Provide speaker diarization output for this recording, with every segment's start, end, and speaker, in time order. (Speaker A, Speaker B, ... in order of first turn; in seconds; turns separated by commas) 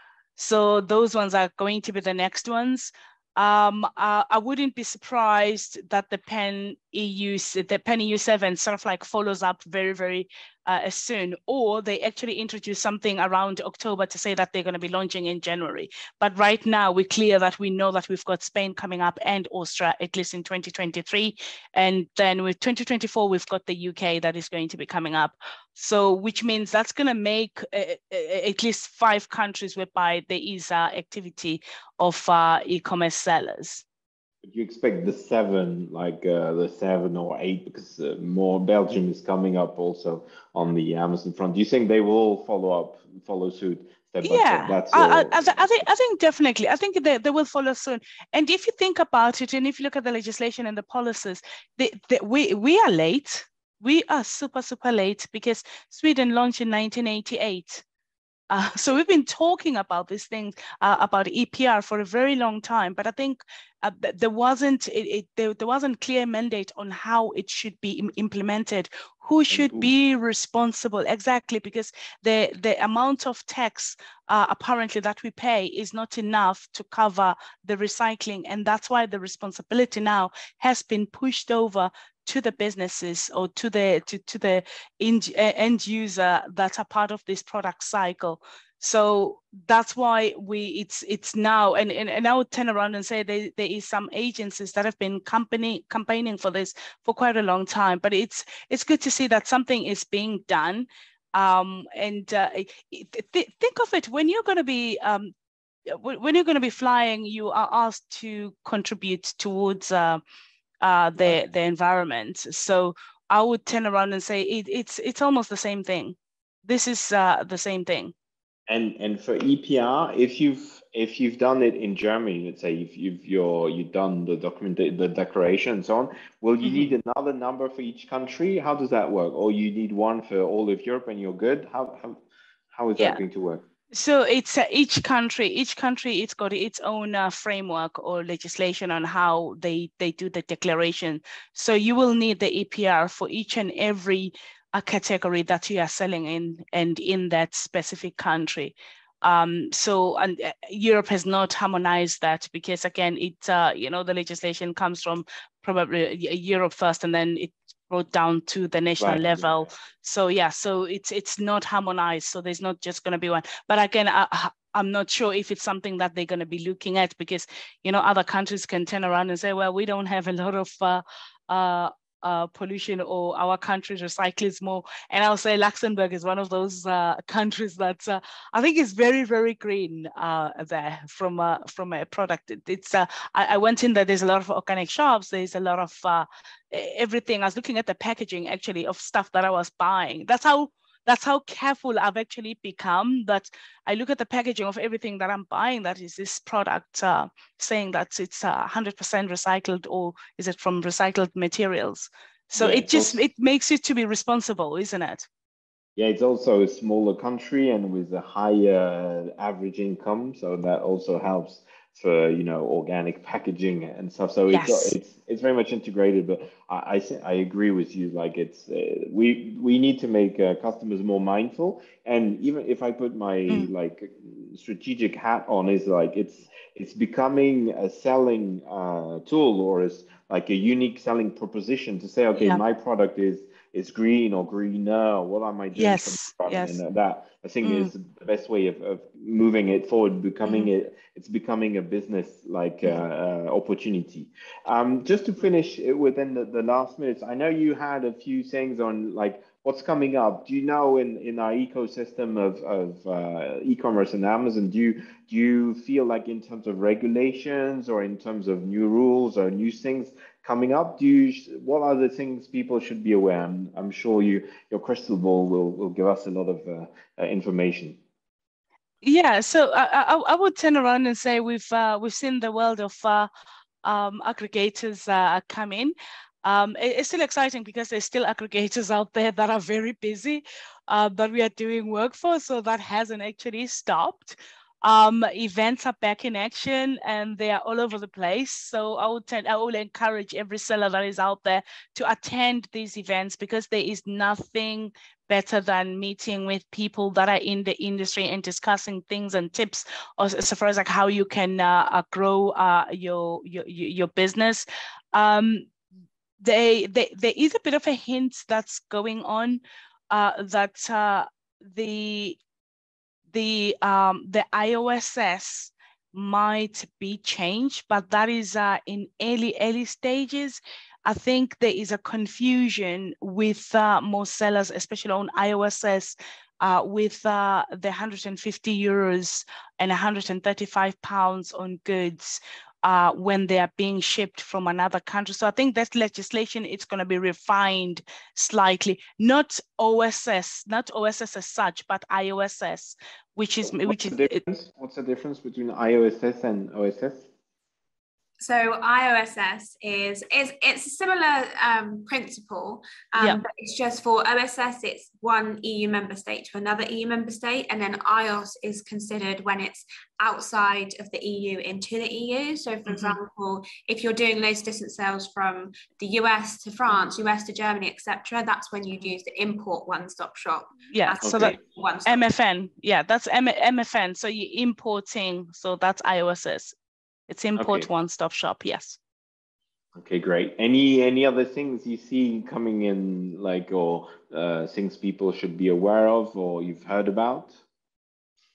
Speaker A: 0.4-33.9, Speaker B: 34.4-45.9, Speaker A: 44.2-57.9, Speaker A: 58.5-105.3, Speaker B: 69.5-69.9, Speaker A: 105.9-110.2, Speaker A: 110.8-118.1, Speaker B: 118.7-133.7, Speaker A: 126.6-126.9, Speaker A: 133.9-205.3, Speaker B: 159.0-159.7, Speaker B: 202.6-203.2, Speaker B: 206.0-268.0, Speaker A: 214.5-214.9, Speaker A: 232.4-232.6, Speaker A: 235.7-236.8, Speaker A: 237.6-237.9, Speaker A: 269.0-273.3, Speaker A: 273.8-305.7, Speaker A: 306.4-312.4, Speaker A: 313.3-344.4, Speaker B: 343.7-347.3, Speaker C: 348.4-372.3, Speaker A: 362.9-363.2, Speaker A: 370.9-376.8, Speaker B: 371.2-371.6, Speaker A: 377.3-379.0, Speaker B: 377.6-377.9, Speaker B: 380.0-387.6